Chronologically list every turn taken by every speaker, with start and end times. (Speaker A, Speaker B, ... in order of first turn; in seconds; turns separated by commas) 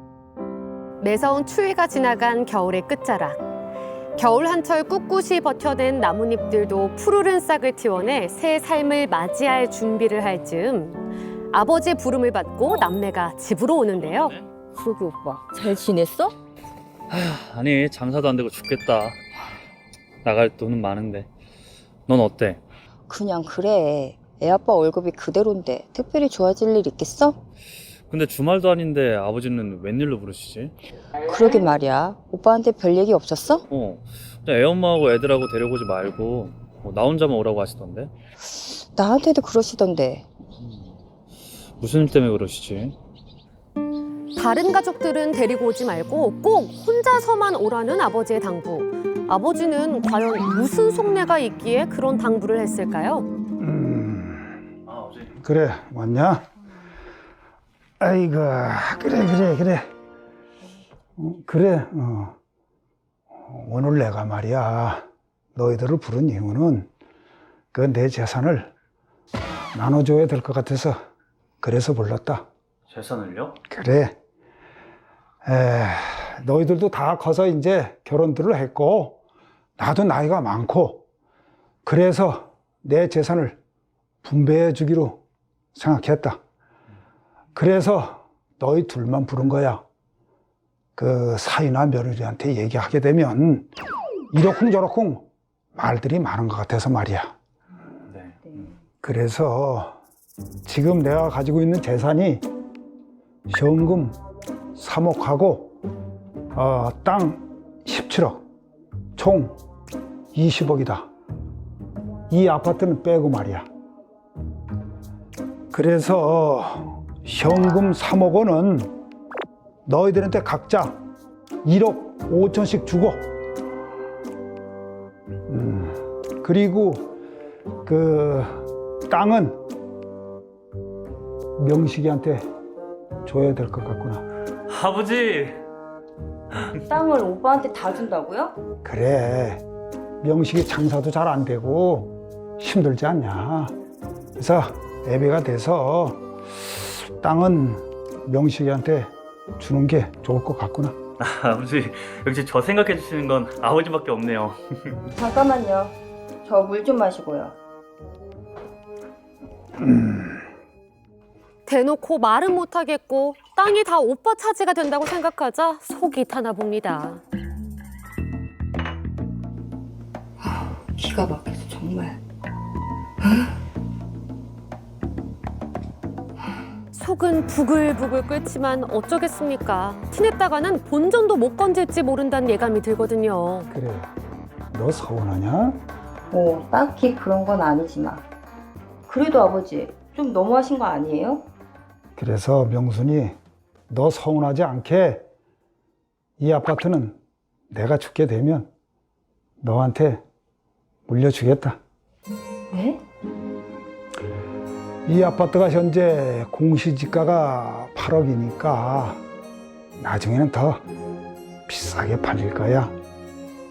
Speaker A: 1.0-3.4, Speaker A: 4.2-14.4, Speaker B: 14.0-14.4, Speaker C: 14.7-16.4, Speaker B: 17.1-19.2, Speaker B: 20.2-21.3, Speaker B: 22.1-22.6, Speaker C: 23.1-27.4, Speaker B: 28.1-30.7, Speaker C: 31.3-33.6, Speaker B: 33.7-38.1, Speaker C: 38.4-40.3, Speaker B: 40.6-40.9, Speaker B: 41.8-43.0, Speaker A: 44.4-53.3, Speaker D: 53.6-54.6, Speaker D: 55.4-56.5, Speaker D: 58.0-59.8, Speaker D: 61.2-62.4, Speaker D: 63.4-65.0, Speaker D: 65.5-66.9, Speaker D: 67.7-68.7, Speaker D: 69.7-71.0, Speaker D: 71.6-72.5, Speaker B: 72.9-73.5, Speaker D: 73.7-74.2, Speaker D: 75.5-79.2, Speaker D: 79.8-81.0, Speaker D: 81.8-83.6, Speaker D: 84.2-85.2, Speaker D: 85.8-86.4, Speaker D: 87.5-89.8, Speaker D: 91.0-93.7, Speaker D: 94.3-97.3, Speaker D: 99.0-100.0, Speaker D: 100.7-102.4, Speaker D: 103.5-104.2, Speaker D: 104.8-105.8, Speaker D: 106.5-108.4, Speaker D: 109.2-109.6, Speaker D: 110.3-111.1, Speaker D: 112.3-113.7, Speaker D: 115.7-118.9, Speaker D: 119.9-121.0, Speaker D: 121.6-123.3, Speaker D: 125.5-127.1, Speaker D: 127.8-129.6, Speaker D: 131.6-132.4, Speaker D: 133.3-134.2, Speaker B: 134.7-135.6, Speaker C: 136.9-138.6, Speaker D: 138.8-139.6, Speaker D: 140.2-143.7, Speaker D: 144.4-151.0, Speaker B: 151.2-155.0, Speaker C: 155.2-157.6, Speaker D: 159.8-160.4, Speaker A: 161.7-167.2, Speaker C: 170.4-172.2, Speaker C: 173.2-173.5, Speaker A: 176.9-183.7, Speaker D: 183.7-184.1, Speaker D: 184.7-185.8, Speaker C: 186.3-188.2, Speaker C: 189.1-191.5, Speaker D: 192.2-193.4, Speaker D: 193.9-195.2, Speaker D: 196.4-197.2, Speaker D: 197.7-198.7, Speaker D: 199.6-200.2, Speaker D: 201.1-201.8, Speaker C: 202.7-203.0, Speaker D: 205.1-209.2, Speaker D: 210.0-210.8, Speaker D: 211.7-212.9